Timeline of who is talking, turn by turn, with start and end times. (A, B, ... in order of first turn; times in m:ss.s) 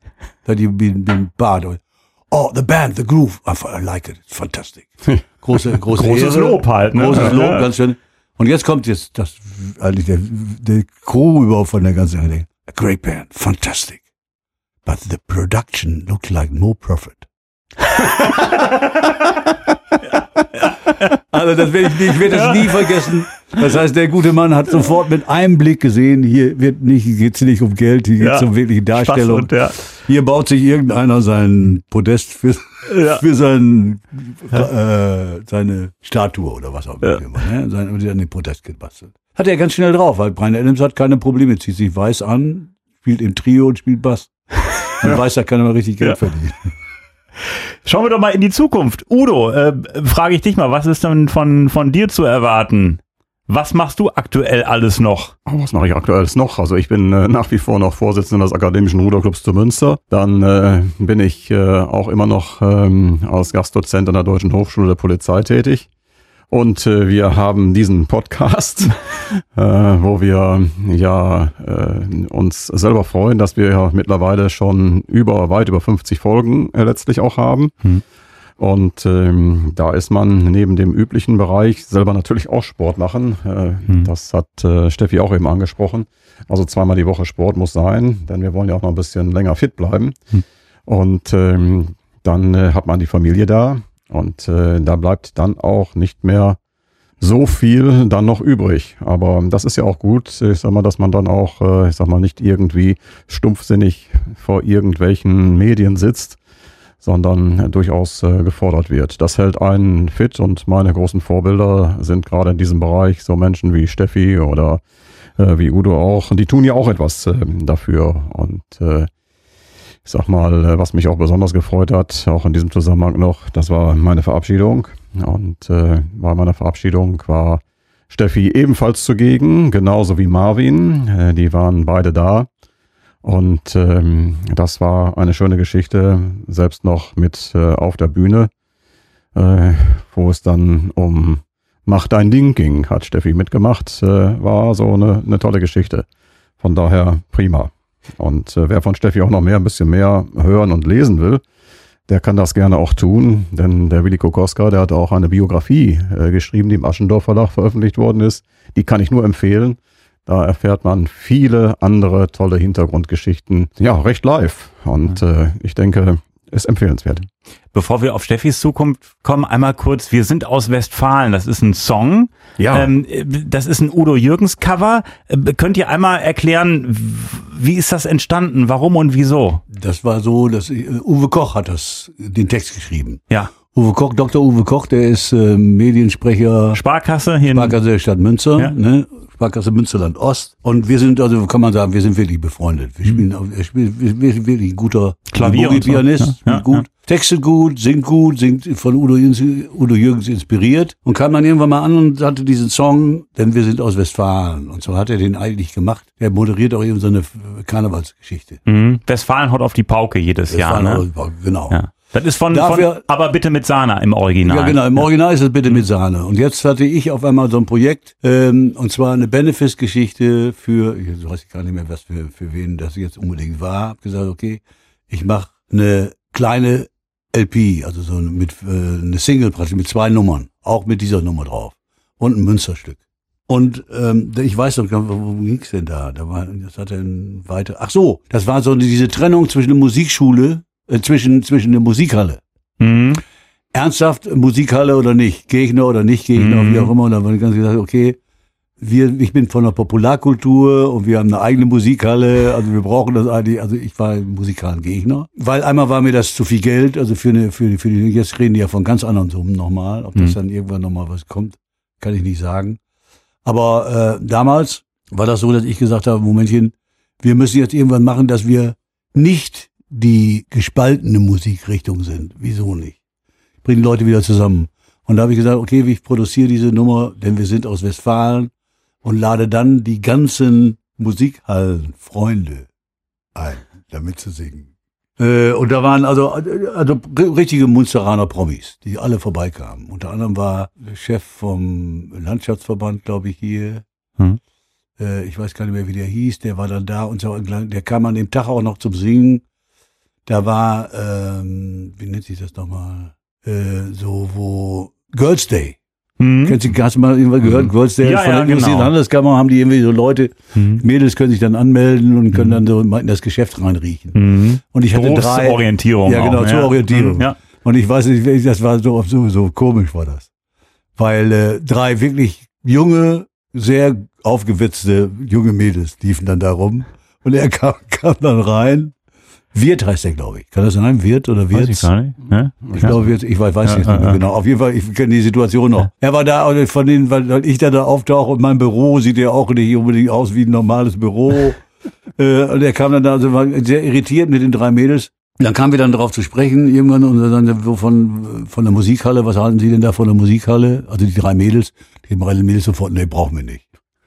0:00.4-0:14.0 A
0:05.9-0:07.6 B
0:14.8-0:17.3 A
0:18.4-0:18.7 B
0:20.6-0:21.1 B
0:21.3-0:44.3 A
0:22.3-0:23.1 B
0:28.2-0:29.8 B
0:32.9-0:33.2 B
0:44.9-0:46.7 A
0:47.8-0:55.3 B
0:55.4-1:05.9 C
1:06.5-1:17.7 C
1:18.6-1:30.2 C
1:30.9-1:36.6 C
1:37.2-1:46.4 C
1:47.0-1:54.8 C
1:55.4-1:59.1 C
2:00.0-2:12.5 C
2:13.2-2:18.5 C
2:19.3-2:26.0 C
2:26.6-2:31.4 C
2:32.1-2:47.2 C
2:47.7-2:59.6 B
2:52.6-2:52.9 C
2:59.7-3:06.8 A
3:06.7-3:07.8 B
3:07.5-3:28.6 A
3:15.3-3:16.8 B
3:28.6-3:31.0 B
3:30.5-3:31.8 A
3:31.7-3:35.0 B
3:32.5-3:33.0 A
3:34.4-4:02.4 A
4:02.8-4:03.2 B
4:03.7-4:08.2 A
4:06.4-4:06.9 B
4:08.8-4:22.8 A
4:23.4-4:33.0 A
4:33.6-4:38.5 A
4:39.0-4:42.7 A
4:43.3-4:53.8 A
4:55.0-4:59.4 A
5:00.2-5:05.8 A
5:06.2-5:06.6 B
5:06.4-5:14.2 A
5:07.4-5:08.9 B
5:10.5-5:10.8 B
5:14.1-5:17.3 B
5:14.7-5:20.3 A
5:21.0-5:28.9 A
5:29.5-5:31.9 A
5:31.5-5:33.0 B
5:32.6-5:32.9 C
5:32.8-5:41.6 A
5:33.6-5:34.2 B
5:42.2-5:53.6 A